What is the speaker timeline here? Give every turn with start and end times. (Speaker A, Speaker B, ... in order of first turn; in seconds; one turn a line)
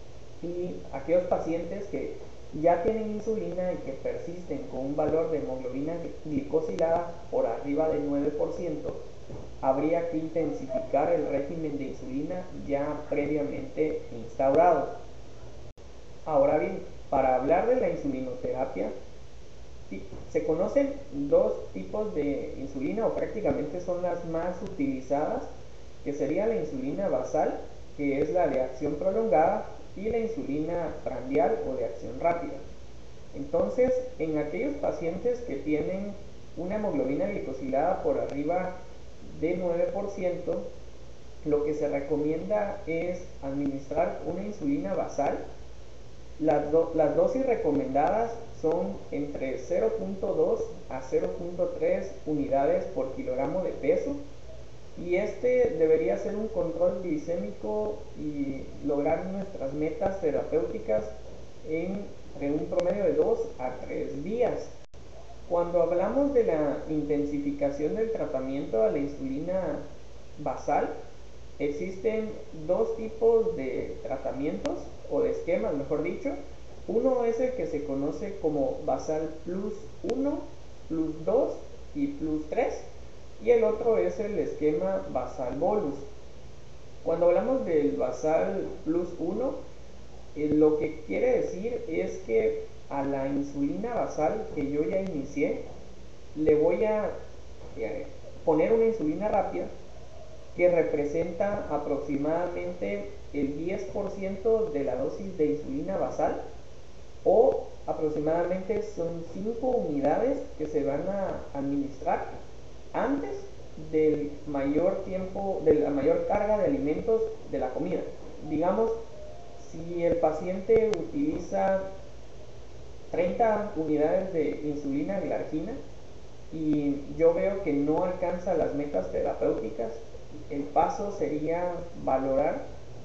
Speaker A: 0.4-9.0
Speaker A: 9.6-14.9
Speaker A: 16.2-18.9
Speaker A: 19.9-25.5
Speaker A: 26.0-32.6
Speaker A: 33.3-40.7
Speaker A: 41.4-45.4
Speaker A: 46.4-54.2
Speaker A: 55.0-61.1
Speaker A: 61.6-64.7
Speaker A: 65.5-70.9
Speaker A: 71.6-82.9
Speaker A: 83.4-86.1
Speaker A: 87.0-89.6
Speaker A: 90.3-95.6
Speaker A: 96.3-97.1
Speaker A: 97.7-99.7
Speaker A: 100.5-106.4
Speaker A: 107.2-112.4
Speaker A: 112.9-119.0
Speaker A: 119.6-121.8
Speaker A: 123.1-125.8
Speaker A: 126.5-132.6